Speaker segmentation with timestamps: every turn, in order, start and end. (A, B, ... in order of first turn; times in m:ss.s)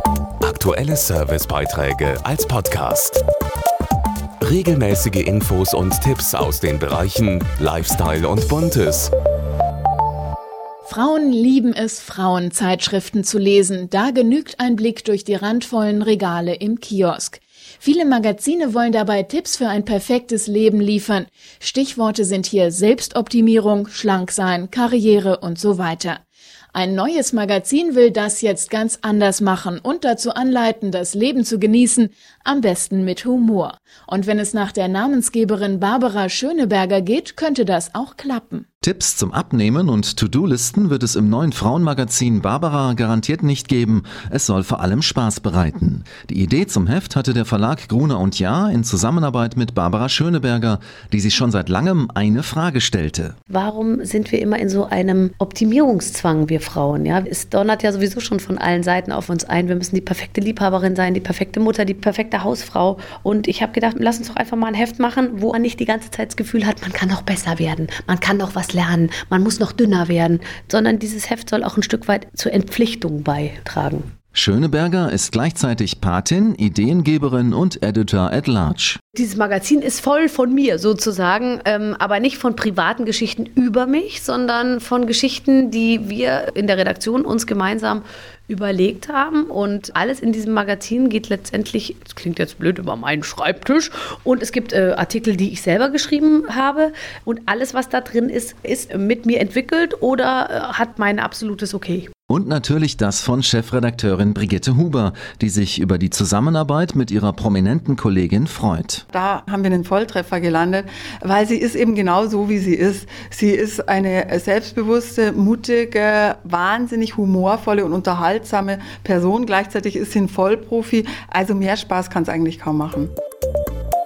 0:00.4-0:03.2 A
0:04.4-0:09.1 A
0:10.8-0:26.2 B
0:26.7-0:38.6 B
0:38.8-0:53.4 C
0:53.5-1:14.1 D
1:14.3-1:19.0 C
1:19.1-1:42.1 D
1:42.3-1:49.0 C
1:49.1-2:03.1 E